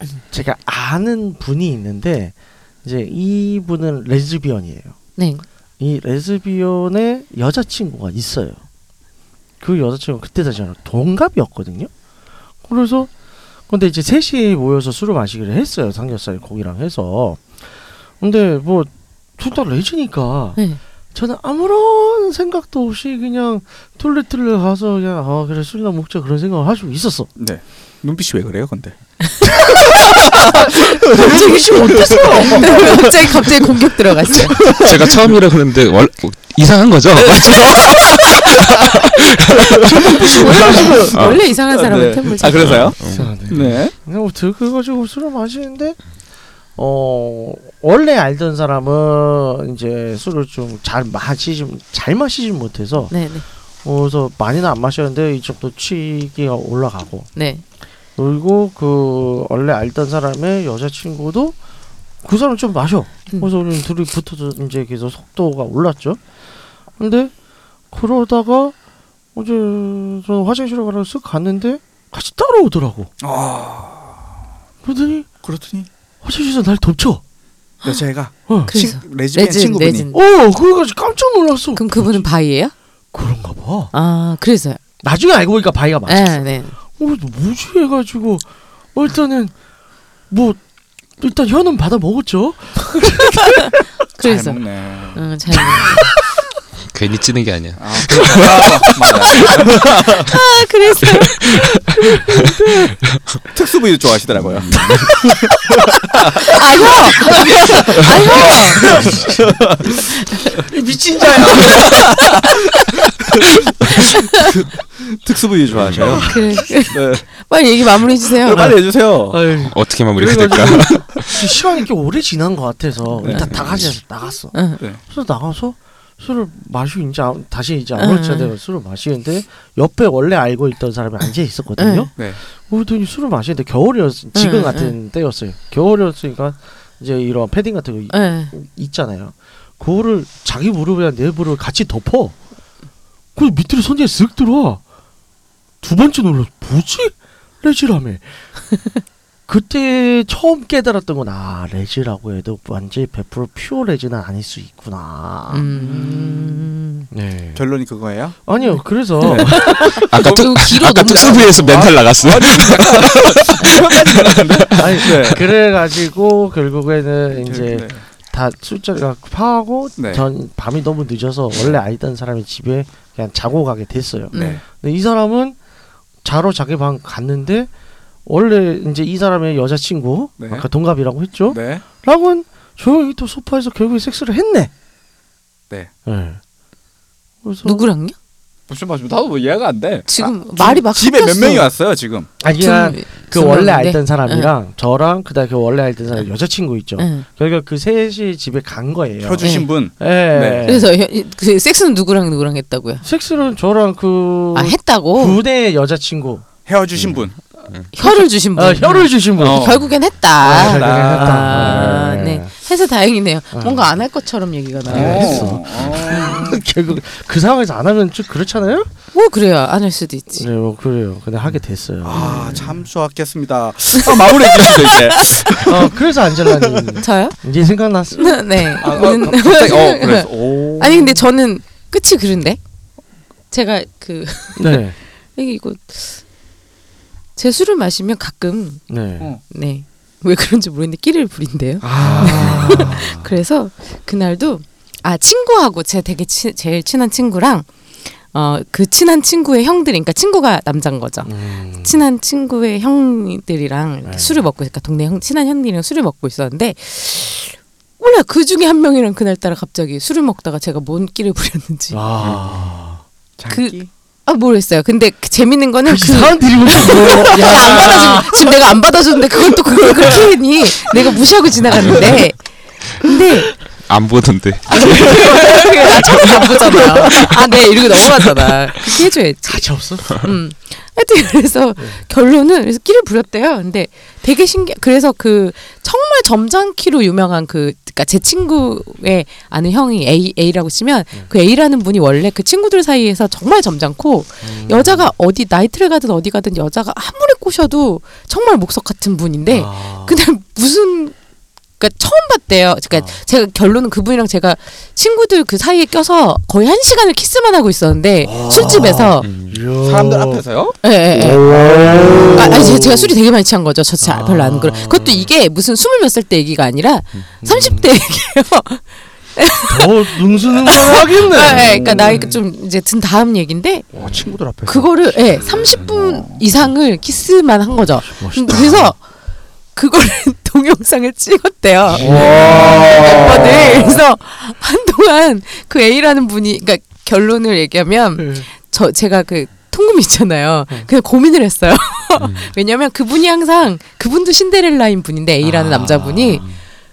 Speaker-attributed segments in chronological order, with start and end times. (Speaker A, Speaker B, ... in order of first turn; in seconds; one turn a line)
Speaker A: 0.2-5.0
Speaker B: 5.2-5.5
Speaker A: 5.8-8.6
Speaker A: 9.6-11.9
Speaker A: 12.6-13.1
Speaker A: 13.7-17.6
Speaker A: 18.2-20.6
Speaker A: 21.1-27.3
Speaker C: 27.4-29.0
Speaker A: 29.8-33.4
Speaker C: 29.9-33.3
Speaker B: 30.4-34.7
Speaker C: 34.4-35.4
Speaker D: 34.7-40.0
Speaker C: 37.2-43.9
Speaker A: 40.0-41.4
Speaker B: 40.0-42.9
Speaker D: 42.6-43.5
Speaker A: 43.1-46.0
Speaker A: 46.8-53.2
Speaker B: 53.1-53.5
Speaker A: 53.8-57.4
Speaker B: 57.4-57.6
Speaker A: 58.2-61.6
Speaker A: 62.2-66.2
Speaker A: 67.0-67.3
Speaker A: 67.9-68.8
Speaker A: 69.3-73.1
Speaker C: 73.2-74.3
Speaker A: 74.8-75.3
Speaker C: 75.4-75.9
Speaker A: 76.2-77.2
Speaker C: 77.8-80.1
Speaker B: 78.7-80.2
Speaker A: 80.1-82.2
Speaker B: 81.7-82.7
Speaker A: 83.1-83.9
Speaker B: 83.9-84.8
Speaker A: 85.0-89.5
Speaker B: 86.0-86.8
Speaker A: 90.3-90.6
Speaker A: 91.2-93.7
Speaker B: 94.2-94.6
Speaker C: 94.2-95.2
Speaker B: 95.1-96.1
Speaker D: 96.9-98.8
Speaker C: 97.8-100.3
Speaker B: 99.3-99.7
Speaker B: 100.2-101.4
Speaker A: 101.8-102.9
Speaker C: 103.5-106.9
Speaker D: 104.5-105.0
Speaker B: 106.5-109.2
Speaker A: 106.8-109.5
Speaker C: 107.7-110.0
Speaker A: 110.6-112.2
Speaker C: 111.6-112.5
Speaker C: 113.3-117.2
Speaker D: 115.7-116.2
Speaker A: 116.0-116.6
Speaker B: 116.2-118.8
Speaker C: 118.3-119.4
Speaker A: 119.3-142.4
Speaker D: 119.7-121.3
Speaker C: 123.2-123.6
Speaker D: 123.3-123.9
Speaker B: 124.5-124.8
Speaker B: 128.0-128.5
Speaker B: 131.8-132.1
Speaker B: 134.3-134.9
Speaker B: 138.1-138.5
Speaker A: 143.3-144.8
Speaker A: 145.8-148.4
Speaker A: 149.5-156.6
Speaker B: 155.5-157.1
Speaker C: 155.9-156.1
Speaker A: 157.1-157.7
Speaker C: 157.6-158.4
Speaker A: 158.4-160.0
Speaker B: 158.6-161.7
Speaker C: 159.2-160.6
Speaker D: 160.1-165.3
Speaker C: 161.5-165.5
Speaker A: 164.8-175.6
Speaker C: 167.3-168.0
Speaker C: 170.0-170.3
Speaker B: 174.3-174.6
Speaker C: 174.3-174.6
Speaker A: 176.2-177.7
Speaker A: 178.2-184.7
Speaker C: 180.4-180.7
Speaker C: 181.5-181.8
Speaker A: 186.1-186.4
Speaker A: 187.4-187.9
Speaker B: 187.6-188.1
Speaker C: 188.7-192.3
Speaker B: 190.1-191.7
Speaker A: 192.4-200.9
Speaker B: 192.6-194.5
Speaker B: 197.0-197.2
Speaker C: 199.2-200.7
Speaker B: 199.4-199.7
Speaker B: 200.6-203.0
Speaker A: 203.0-206.4
Speaker B: 204.5-205.4
Speaker C: 206.7-207.4
Speaker B: 207.9-215.6
Speaker A: 208.0-209.8
Speaker C: 209.4-209.9
Speaker A: 210.4-212.5
Speaker C: 210.5-212.1
Speaker A: 213.5-213.9
Speaker A: 214.8-218.9
Speaker C: 214.9-216.6
Speaker B: 219.1-220.5
Speaker A: 220.4-222.8
Speaker C: 222.0-227.0
Speaker B: 222.1-222.7
Speaker B: 224.0-225.6
Speaker A: 225.6-228.9
Speaker B: 227.0-227.4
Speaker B: 228.2-232.6
Speaker C: 228.8-231.2
Speaker B: 233.5-234.8
Speaker A: 234.6-234.9
Speaker B: 235.3-236.2
Speaker B: 237.4-238.8
Speaker A: 238.9-239.3
Speaker B: 239.5-247.7
Speaker C: 241.8-243.2
Speaker A: 241.9-243.3
Speaker B: 248.3-262.0
Speaker A: 251.2-252.0
Speaker A: 254.1-254.4
Speaker A: 261.9-263.0
Speaker D: 262.2-262.5
Speaker C: 263.4-263.9
Speaker B: 263.5-273.5
Speaker A: 265.9-268.6
Speaker C: 267.5-268.0
Speaker A: 269.8-270.3
Speaker A: 271.7-272.2
Speaker D: 273.9-277.2
Speaker B: 274.7-301.1
Speaker A: 275.0-277.3
Speaker A: 279.4-280.3
Speaker A: 281.8-282.0
Speaker A: 294.4-295.1
Speaker A: 299.5-300.2
Speaker B: 301.8-309.3
Speaker A: 302.9-303.2
Speaker A: 308.2-310.4
Speaker D: 309.2-309.6
Speaker C: 309.8-310.8
Speaker B: 310.8-311.5
Speaker A: 311.1-313.1
Speaker C: 311.8-312.3
Speaker B: 312.3-323.9
Speaker A: 314.0-315.3
Speaker A: 317.4-317.9
Speaker A: 319.7-322.4
Speaker C: 321.4-322.4
Speaker C: 323.9-326.4
Speaker A: 323.9-324.2
Speaker B: 324.6-329.0
Speaker A: 328.0-328.9
Speaker B: 329.7-346.4
Speaker A: 331.9-334.0
Speaker C: 332.0-332.9
Speaker A: 338.2-338.5
Speaker D: 342.2-342.5
Speaker A: 345.4-346.6